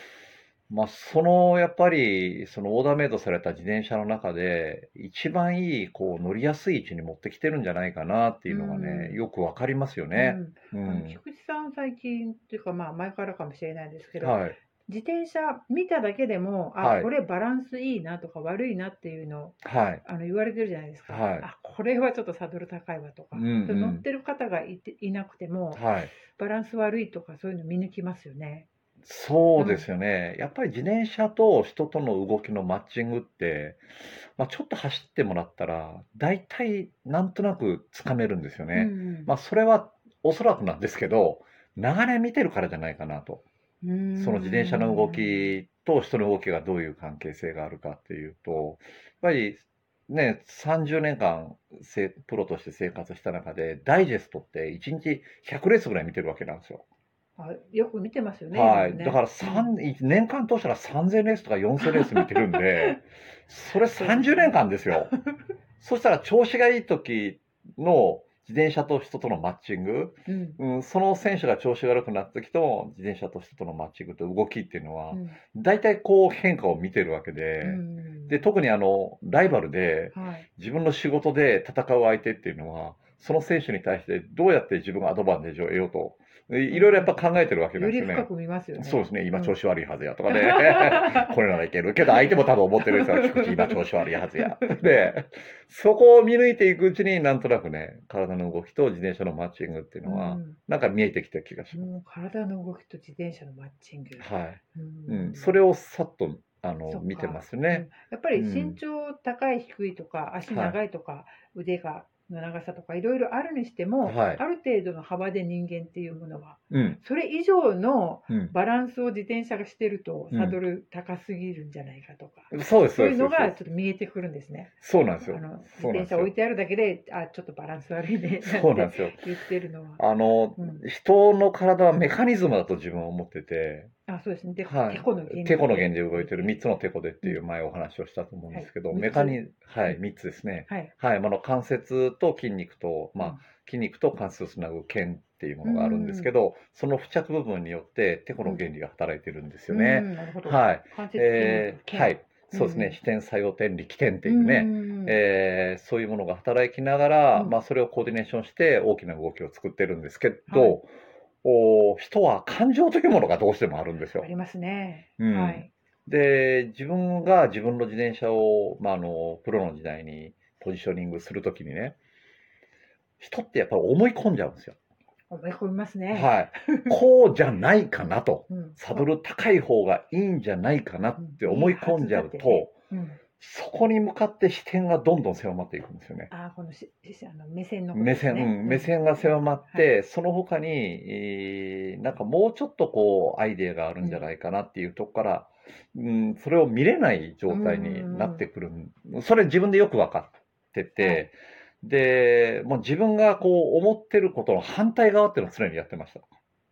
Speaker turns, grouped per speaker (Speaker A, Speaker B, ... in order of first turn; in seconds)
Speaker A: 0.7-11.2, 14.2-14.6, 16.8-17.1, 19.6-20.0, 21.1-21.5, 23.3-24.0, 25.7-26.1, 29.0-33.8, 34.4-43.4, 44.1-56.8, 58.5-65.1, 65.8-101.9, 104.2-108.8, 110.5-110.8, 114.0-114.4, 116.7-117.0, 118.3-118.5, 120.3-120.6, 122.5-123.6, 124.8-126.3, 128.4-129.2, 130.0-133.9, 134.7-160.9, 161.4-164.3, 165.2-171.9, 173.2-174.8, 176.1-182.7, 183.4-186.3, 187.9-206.3
Speaker B: 8.5-9.2, 10.1-28.7, 29.6-29.9, 38.7-39.3, 43.8-45.5, 57.4-59.7, 61.8-63.0, 63.9-64.6, 70.2-70.6, 75.1-75.4, 77.6-78.4, 80.1-80.5, 86.7-87.2, 87.7-89.5, 90.2-91.3, 92.1-93.8, 94.4-95.0, 100.0-100.6, 101.7-105.6, 106.9-130.0, 130.6-130.8, 134.1-136.6, 138.5-140.0, 145.6-146.3, 149.7-153.0, 154.2-155.2, 160.5-160.8, 164.2-165.7, 175.3-177.0, 178.5-179.0, 181.2-183.2, 186.3-189.9, 197.5-198.4, 201.0-201.2